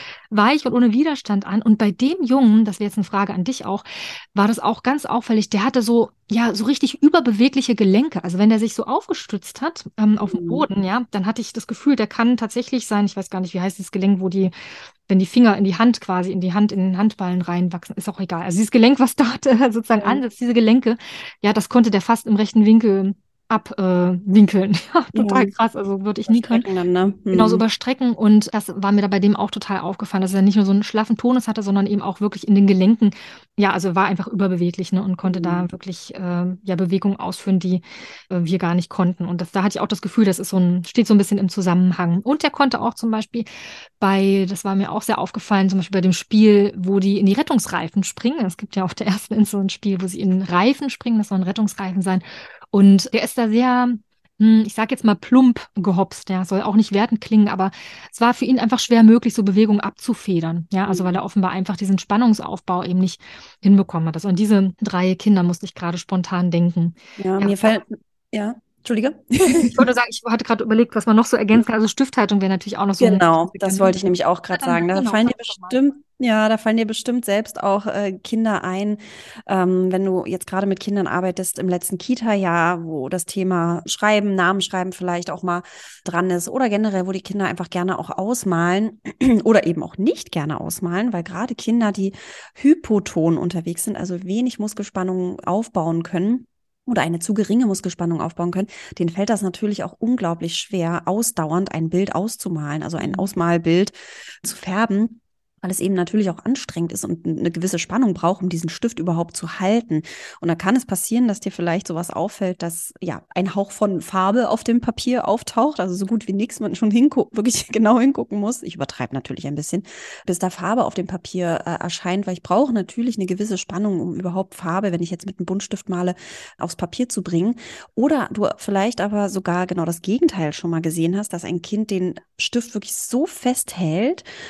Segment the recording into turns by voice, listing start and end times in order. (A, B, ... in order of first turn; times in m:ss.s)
0:00.3-0:03.8 A
0:04.3-0:14.5 A
0:10.3-0:10.6 B
0:15.1-0:26.7 A
0:25.2-0:25.5 B
0:26.3-0:27.6 B
0:27.3-0:43.5 A
0:35.2-0:35.7 B
0:44.0-1:07.8 A
1:07.2-1:09.8 B
1:09.7-1:14.0 A
1:13.0-2:14.2 B
1:14.5-1:15.8 A
1:43.0-1:43.3 A